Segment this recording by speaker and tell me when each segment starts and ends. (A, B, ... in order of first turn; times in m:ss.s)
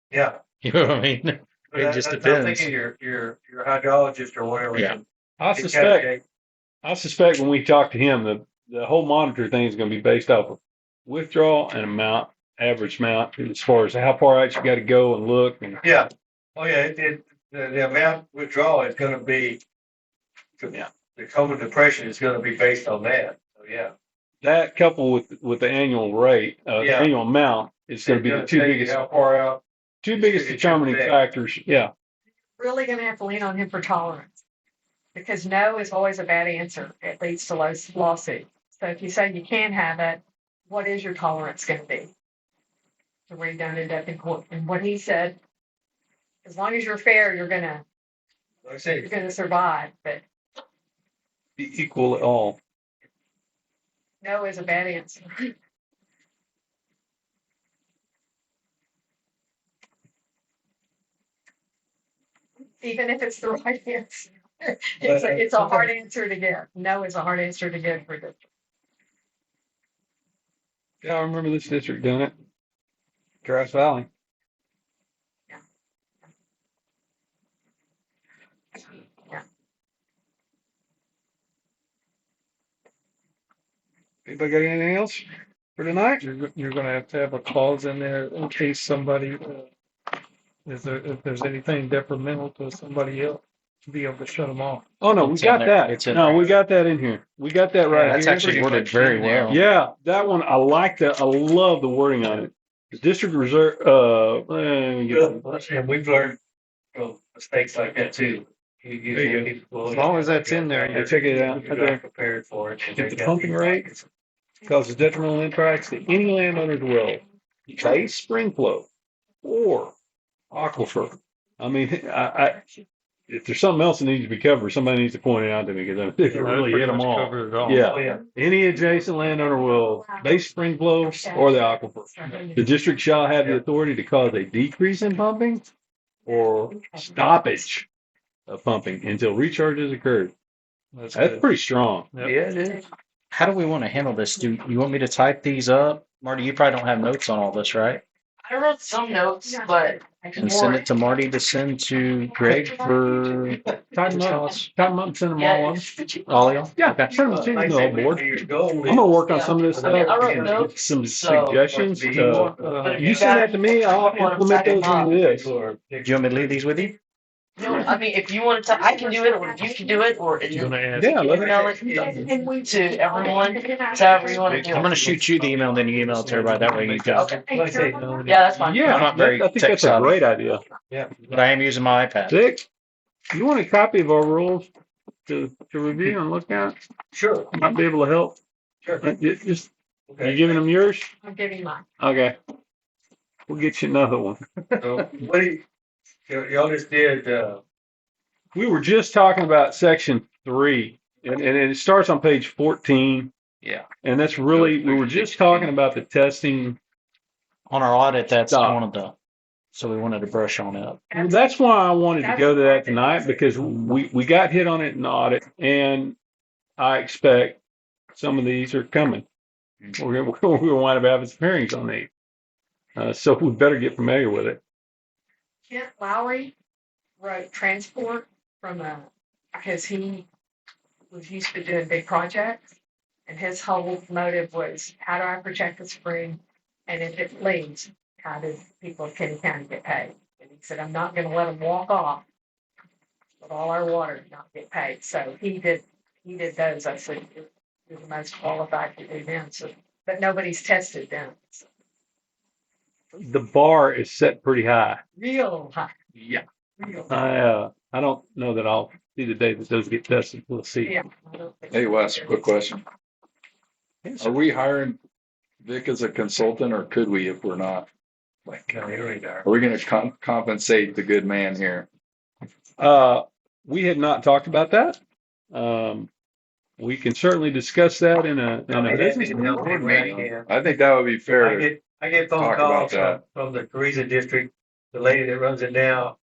0:00.1-0:00.4 A
0:00.6-0:02.7 B
0:01.7-0:05.0 A
0:04.7-0:05.0 B
0:05.4-0:06.1 C
0:05.5-0:06.2 A
0:06.8-0:15.8 C
0:15.8-0:19.6 A
0:20.6-0:23.9 A
0:24.4-0:29.1 C
0:26.8-0:27.1 A
0:28.0-0:29.6 A
0:30.0-0:31.9 C
0:30.1-0:31.2 A
0:32.6-0:34.4 D
0:35.1-0:42.1 D
0:43.3-0:45.4 D
0:46.4-0:47.8 D
0:48.6-0:49.1 A
0:49.0-0:50.2 D
0:51.6-0:52.6 C
0:54.2-0:55.5 D
1:02.8-1:08.4 D
1:05.0-1:05.9 C
1:11.0-1:12.3 C
1:13.4-1:14.1 C
1:24.2-1:25.2 C
1:25.8-1:26.2 C
1:26.2-1:29.7 E
1:30.6-1:34.8 E
1:35.0-1:45.4 C
1:35.2-1:36.5 B
1:37.9-1:39.6 B
1:45.0-1:46.4 A
1:46.9-1:54.0 A
1:49.2-1:49.5 C
1:49.9-1:51.1 E
1:50.9-1:52.0 C
1:52.9-1:53.9 C
1:54.6-1:58.9 C
1:59.4-1:59.9 C
2:00.5-2:02.6 C
2:03.3-2:15.6 C
2:06.3-2:06.6 A
2:06.3-2:07.9 E
2:07.7-2:08.2 A
2:09.0-2:12.8 D
2:16.3-2:17.8 C
2:16.3-2:17.0 D
2:18.5-2:20.3 C
2:20.9-2:21.4 E
2:21.1-2:22.8 C
2:22.6-2:22.9 D
2:23.3-2:28.0 B
2:28.4-2:30.8 F
2:29.4-2:30.8 D
2:30.4-2:33.6 B
2:32.4-2:32.7 C
2:33.9-2:35.9 C
2:35.3-2:36.5 F
2:36.3-2:37.1 B
2:36.8-2:45.5 C
2:37.1-2:40.8 A
2:39.2-2:41.6 F
2:41.5-2:42.9 A
2:42.1-2:44.5 E
2:42.8-2:45.1 F
2:44.5-2:46.7 A
2:46.0-2:47.0 B
2:47.6-2:50.8 F
2:47.6-2:47.9 D
2:48.7-2:50.1 D
2:50.5-2:51.7 E
2:50.9-2:51.5 C
2:51.2-2:55.2 D
2:51.4-2:54.8 F
2:51.7-2:52.2 A
2:54.3-2:57.4 E
2:54.6-2:57.3 B
2:57.2-2:58.5 D
2:57.4-2:58.4 A
2:58.0-2:58.8 E
2:58.2-2:58.8 F
2:58.6-3:00.6 C
2:58.8-3:00.2 B
3:00.9-3:01.4 A
3:01.3-3:02.4 B
3:02.3-3:02.6 C
3:03.3-3:04.7 C
3:05.3-3:06.8 C
3:07.1-3:07.5 A
3:07.5-3:08.4 C
3:09.0-3:09.7 C
3:10.1-3:10.6 A
3:10.2-3:11.1 C
3:11.2-3:11.8 D
3:12.0-3:12.3 C
3:13.5-3:14.4 C
3:14.8-3:15.6 A
3:16.3-3:17.6 A
3:18.5-3:23.3 C
3:24.0-3:26.8 C
3:24.5-3:25.7 B
3:27.7-3:29.1 B
3:28.5-3:28.8 C
3:29.7-3:31.0 B
3:31.1-3:31.5 D
3:31.1-3:36.2 C
3:32.1-3:33.7 D
3:36.8-3:37.6 C
3:38.1-3:39.2 C
3:40.0-3:42.1 C
3:43.0-3:44.6 C
3:45.7-3:46.5 D
3:47.2-3:50.2 D
3:51.1-4:02.2 D
4:03.4-4:11.6 D
4:13.2-4:15.0 C
4:15.2-4:15.9 D
4:16.2-4:16.4 C
4:16.8-4:17.2 D
4:17.1-4:21.0 C
4:20.8-4:22.5 D
4:21.7-4:22.8 G
4:24.0-4:24.4 C
4:24.2-4:25.0 G
4:25.6-4:27.9 G
4:28.5-4:29.4 A
4:29.4-4:31.9 G
4:32.8-4:35.0 C
4:35.5-4:36.1 C
4:36.8-4:40.3 C
4:38.7-4:40.5 A
4:40.4-4:41.7 G
4:41.3-4:46.2 A
4:42.3-4:43.2 G